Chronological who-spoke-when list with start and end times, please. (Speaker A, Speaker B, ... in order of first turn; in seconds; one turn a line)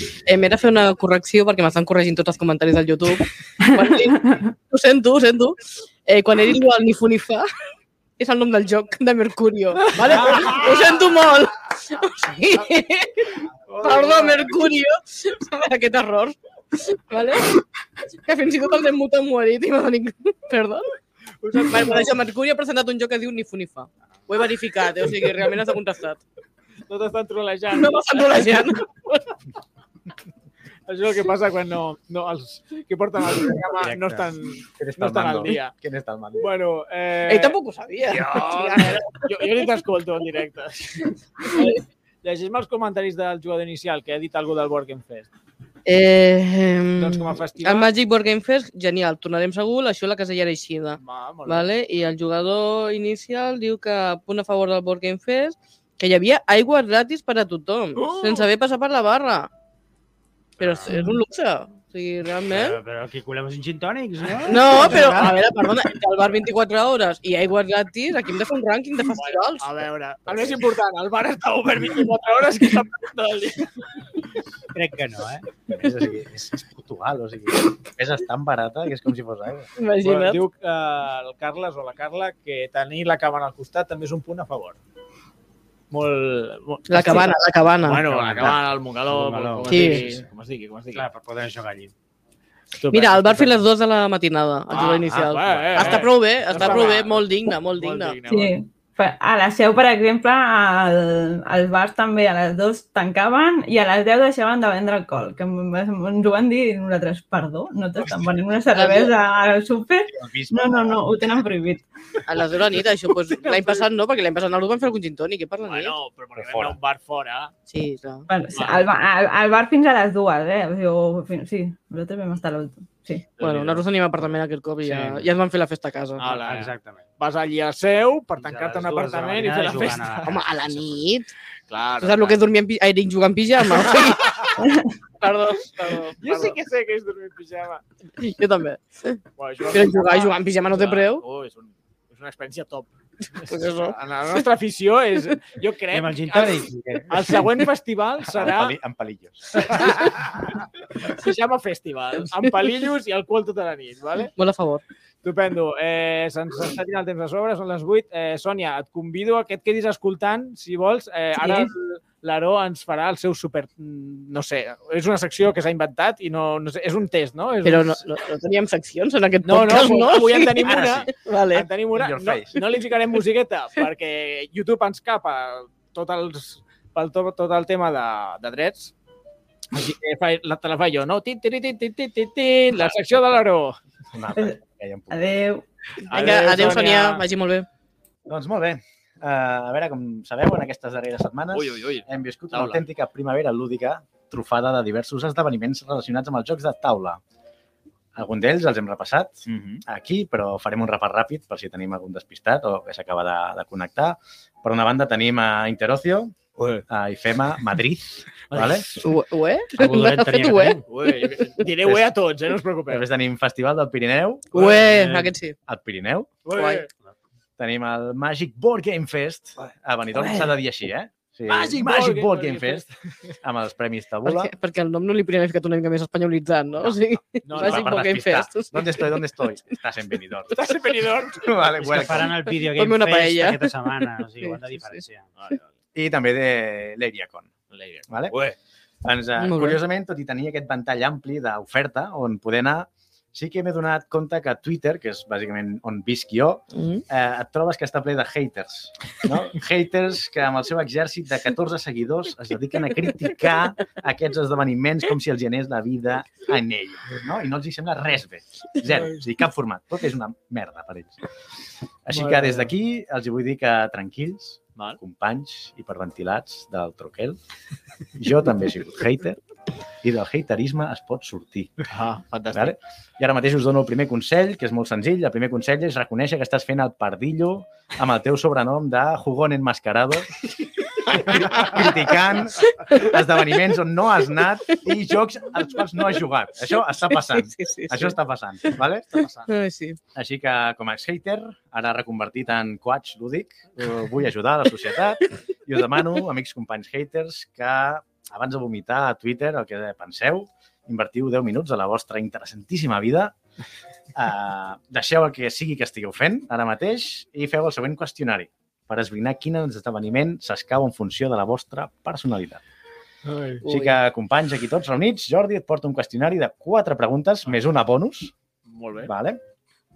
Speaker A: 0.2-7.5
Speaker B: 3.6-4.5
Speaker A: 8.2-20.9
Speaker C: 9.9-11.1
Speaker C: 13.7-14.6
Speaker C: 21.4-22.1
Speaker A: 21.6-26.2
Speaker C: 26.9-28.7
Speaker A: 27.7-29.3
Speaker C: 30.9-35.7
Speaker D: 33.8-34.3
Speaker E: 34.8-36.5
Speaker C: 36.4-45.3
Speaker A: 37.3-39.6
Speaker A: 41.5-41.8
Speaker A: 45.9-59.5
Speaker C: 47.0-47.9
Speaker C: 51.0-51.7
Speaker C: 58.0-58.5
Speaker A: 60.6-62.8
Speaker D: 60.6-61.0
Speaker D: 62.5-65.3
Speaker A: 64.5-69.7
Speaker C: 69.0-73.7
Speaker E: 70.3-70.6
Speaker D: 74.7-75.5
Speaker E: 75.7-79.7
Speaker A: 79.8-80.4
Speaker C: 80.0-84.8
Speaker C: 85.9-91.0
Speaker A: 86.9-88.0
Speaker D: 88.0-90.3
Speaker A: 89.7-90.0
Speaker D: 90.9-91.9
Speaker C: 92.8-93.6
Speaker A: 92.9-98.2
Speaker C: 94.7-98.5
Speaker E: 94.9-96.8
Speaker B: 98.3-111.9
Speaker A: 108.7-109.1
Speaker E: 110.1-111.0
Speaker A: 112.3-116.0
Speaker C: 113.3-113.8
Speaker C: 115.6-117.5
Speaker E: 116.4-116.8
Speaker A: 117.7-118.3
Speaker B: 118.3-123.3
Speaker C: 118.5-118.9
Speaker C: 123.4-123.8
Speaker A: 123.4-126.3
Speaker D: 124.8-125.3
Speaker C: 126.2-130.4
Speaker D: 126.3-127.0
Speaker D: 128.4-131.0
Speaker A: 130.3-131.3
Speaker C: 131.7-132.4
Speaker A: 132.0-134.7
Speaker C: 133.8-134.6
Speaker B: 134.6-134.9
Speaker A: 135.2-136.6
Speaker C: 136.2-137.8
Speaker A: 138.2-139.2
Speaker C: 139.4-148.8
Speaker A: 139.7-141.2
Speaker A: 143.4-144.4
Speaker D: 145.9-147.4
Speaker E: 148.3-150.3
Speaker C: 149.6-150.2
Speaker C: 151.0-154.3
Speaker A: 154.3-154.8
Speaker C: 155.2-168.1
Speaker A: 161.4-161.7
Speaker A: 167.6-171.7
Speaker C: 169.4-178.9
Speaker E: 170.6-171.1
Speaker E: 171.9-172.6
Speaker C: 179.7-183.8
Speaker E: 182.7-183.2
Speaker E: 184.1-185.2
Speaker B: 185.1-185.6
Speaker C: 186.1-187.2
Speaker A: 186.1-187.7
Speaker E: 188.3-197.2
Speaker C: 191.5-192.8
Speaker E: 198.1-208.9
Speaker C: 199.5-199.8
Speaker C: 206.6-206.8
Speaker C: 208.5-209.1
Speaker A: 209.0-211.6
Speaker D: 209.8-210.9
Speaker C: 210.9-213.1
Speaker E: 211.8-212.1
Speaker E: 212.9-214.6
Speaker C: 214.5-215.0
Speaker A: 214.5-215.6
Speaker D: 214.6-215.3
Speaker E: 215.7-216.4
Speaker C: 216.4-216.9
Speaker A: 216.6-216.9
Speaker E: 217.6-222.9
Speaker C: 221.5-223.3
Speaker E: 223.4-224.5
Speaker A: 224.3-229.1
Speaker E: 226.8-230.6
Speaker C: 227.4-228.1
Speaker C: 230.5-232.0
Speaker E: 231.4-232.3
Speaker D: 231.8-235.3
Speaker A: 232.6-235.0
Speaker C: 235.4-235.7
Speaker E: 235.9-237.5
Speaker C: 237.7-238.5
Speaker E: 238.1-238.4
Speaker E: 239.0-261.2
Speaker A: 239.4-239.8
Speaker A: 246.7-247.0
Speaker E: 262.1-267.4
Speaker C: 262.1-262.7
Speaker E: 268.2-269.4
Speaker E: 270.0-271.8
Speaker C: 271.9-272.8
Speaker E: 272.5-280.5
Speaker E: 281.1-289.2
Speaker A: 287.1-288.2
Speaker C: 289.1-289.6
Speaker A: 289.5-290.0
Speaker E: 290.1-303.3
Speaker E: 304.1-312.6
Speaker C: 313.2-313.6
Speaker A: 313.6-313.9
Speaker E: 313.6-318.3
Speaker C: 318.7-319.1
Speaker E: 319.0-319.4